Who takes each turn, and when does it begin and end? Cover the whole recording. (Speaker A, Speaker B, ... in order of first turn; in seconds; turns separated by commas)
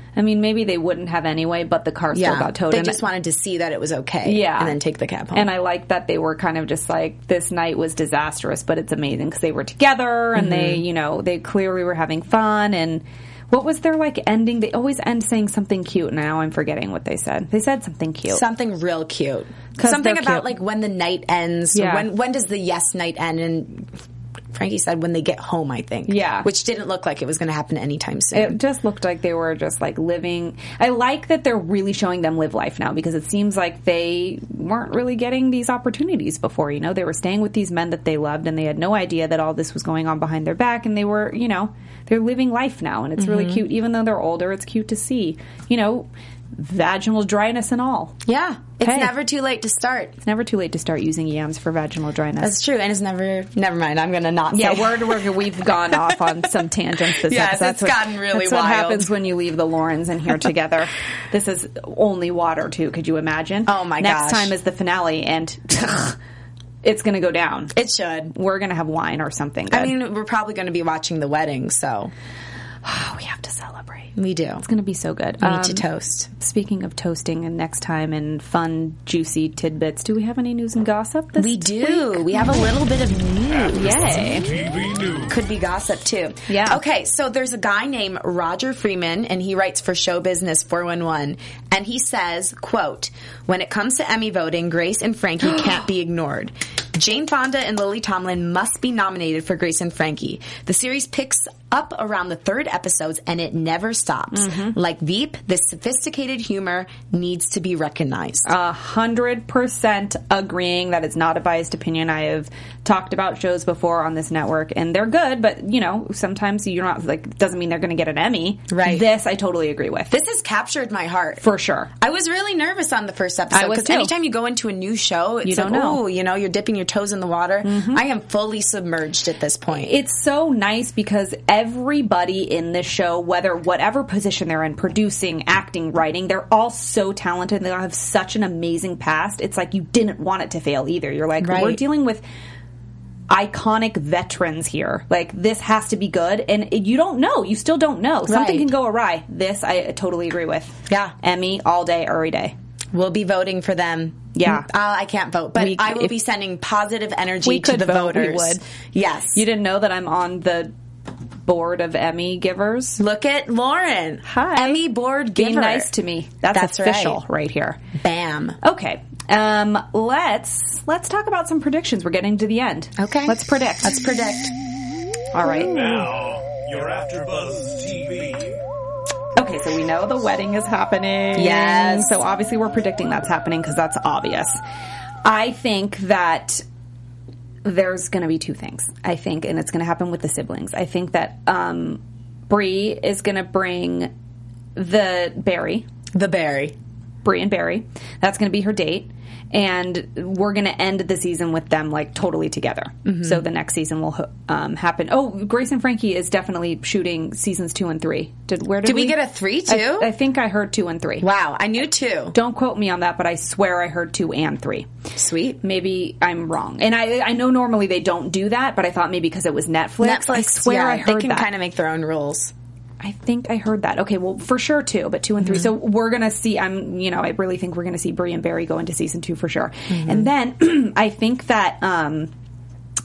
Speaker A: 0.2-3.0, Speaker B: 2.1-5.5, Speaker A: 4.2-4.8, Speaker A: 5.3-18.4, Speaker B: 10.3-10.8, Speaker B: 18.3-23.9, Speaker A: 19.8-20.5, Speaker A: 21.7-22.1, Speaker B: 24.5-28.6, Speaker A: 26.1-26.5, Speaker A: 28.3-48.1, Speaker B: 43.2-43.6, Speaker B: 48.2-50.2, Speaker A: 48.8-49.1, Speaker A: 50.2-52.6, Speaker B: 52.4-55.2, Speaker A: 54.5-66.2, Speaker B: 57.2-59.1, Speaker B: 63.7-64.5, Speaker A: 66.8-67.7, Speaker B: 67.7-68.3, Speaker A: 68.3-69.9, Speaker B: 69.7-72.1, Speaker A: 72.8-82.2, Speaker B: 74.2-74.6, Speaker B: 75.4-76.3, Speaker B: 81.4-84.5, Speaker A: 83.7-84.5, Speaker B: 85.2-108.5, Speaker A: 86.5-86.8, Speaker A: 104.3-104.8, Speaker A: 108.5-120.1, Speaker B: 118.7-119.0, Speaker B: 120.1-129.9, Speaker A: 121.4-121.9, Speaker A: 123.5-124.1, Speaker A: 125.4-126.0, Speaker A: 127.6-128.0, Speaker A: 129.7-142.2, Speaker B: 141.4-141.8, Speaker A: 143.3-152.5, Speaker B: 148.3-148.7, Speaker B: 152.9-159.4, Speaker A: 154.3-154.7, Speaker A: 155.6-156.1, Speaker A: 157.4-158.6, Speaker A: 159.3-160.7, Speaker A: 161.4-163.0, Speaker B: 163.0-165.9, Speaker A: 164.2-167.8, Speaker B: 166.5-167.2, Speaker B: 168.0-168.6, Speaker A: 168.6-174.0, Speaker B: 173.0-174.5, Speaker A: 175.3-176.1, Speaker C: 176.3-178.4, Speaker A: 179.4-184.6, Speaker B: 181.3-182.2, Speaker A: 185.2-186.6, Speaker A: 187.6-194.1, Speaker A: 194.8-195.8, Speaker B: 196.2-196.8, Speaker A: 197.2-211.3, Speaker B: 203.1-203.4, Speaker B: 208.8-210.1, Speaker B: 211.2-212.3, Speaker A: 212.3-214.9, Speaker B: 215.2-215.6, Speaker A: 215.6-221.5, Speaker B: 220.0-222.5, Speaker A: 223.0-232.3, Speaker B: 229.9-230.3